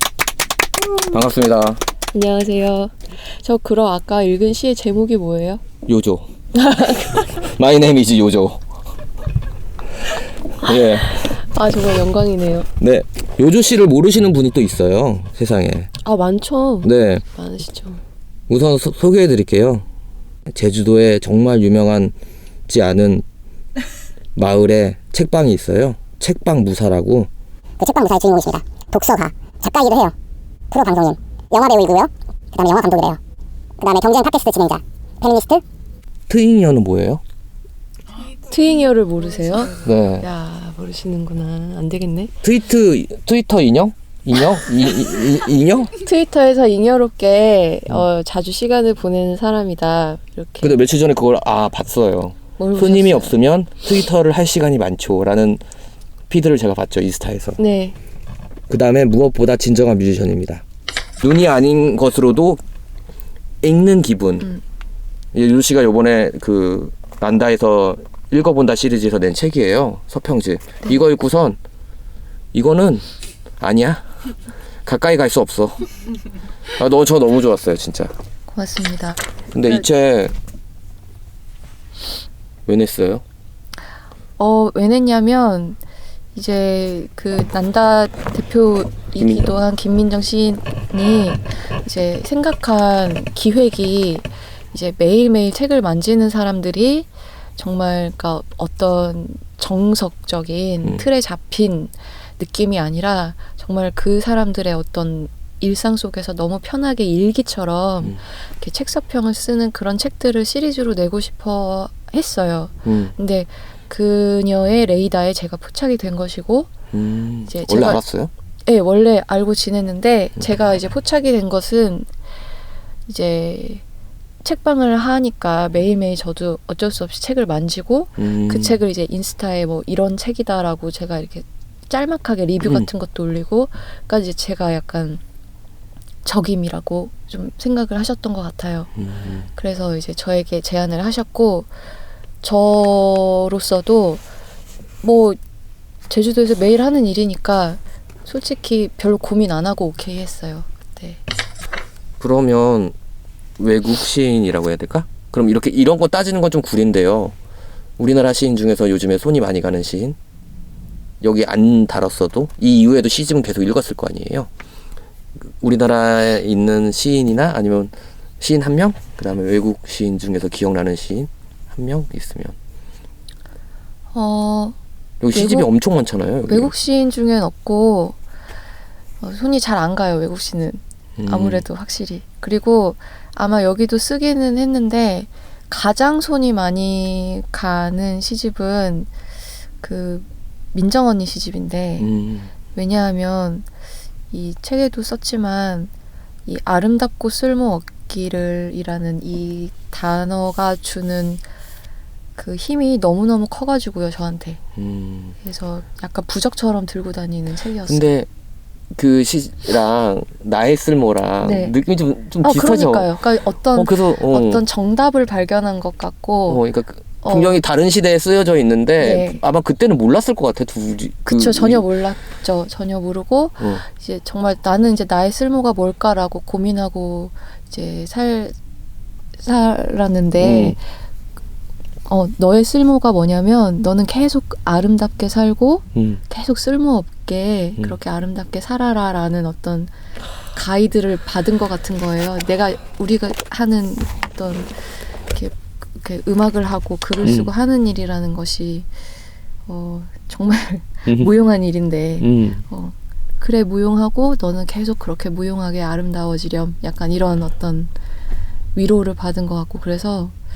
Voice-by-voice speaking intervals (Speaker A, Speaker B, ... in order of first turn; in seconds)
Speaker A: 1.1-1.8, 5.8-6.2, 7.3-8.6, 10.6-11.4, 12.8-15.9, 16.8-17.2, 18.5-19.8, 20.5-22.1, 22.7-23.2, 24.4-27.3, 36.3-37.2, 39.8-40.3, 42.4-45.9, 50.6-55.6, 56.3-57.6, 58.7-60.6, 61.2-62.6, 63.6-64.5, 65.3-71.6, 72.5-73.0, 73.6-74.0, 74.8-75.9, 76.8-78.1, 79.5-80.3, 82.7-83.2, 89.2-89.6, 112.8-113.1, 116.9-118.3, 128.2-128.8, 132.6-132.9, 139.0-139.4, 152.2-152.9, 153.6-157.3, 158.0-160.2, 161.2-164.5, 165.6-172.6, 175.2-176.7, 181.2-181.6, 192.0-192.5, 204.8-205.4, 207.8-208.3, 208.9-213.1, 213.7-214.6, 216.5-221.8, 230.4-230.8, 247.2-247.5, 252.2-252.6
Speaker B: 2.1-5.6, 6.5-7.3, 10.7-12.7, 16.0-18.0, 38.2-42.4, 46.0-50.8, 52.6-53.4, 57.6-58.0, 78.5-79.2, 84.4-85.8, 86.3-116.7, 117.5-118.0, 118.7-122.1, 123.1-123.8, 124.4-135.2, 136.2-138.9, 139.5-141.7, 142.4-144.2, 145.0-145.4, 146.1-151.2, 174.1-174.8, 175.3-175.7, 176.5-178.2, 179.2-189.1, 189.8-192.1, 192.7-193.7, 194.3-195.9, 196.4-201.4, 202.3-204.6, 205.4-208.1, 211.4-211.7, 212.4-216.6, 217.2-217.6, 219.0-219.4, 221.3-228.6, 229.4-230.8, 232.1-239.9, 240.5-248.9, 249.7-257.9, 258.7-260.3
Speaker C: 27.8-30.1, 30.7-33.2, 33.8-35.6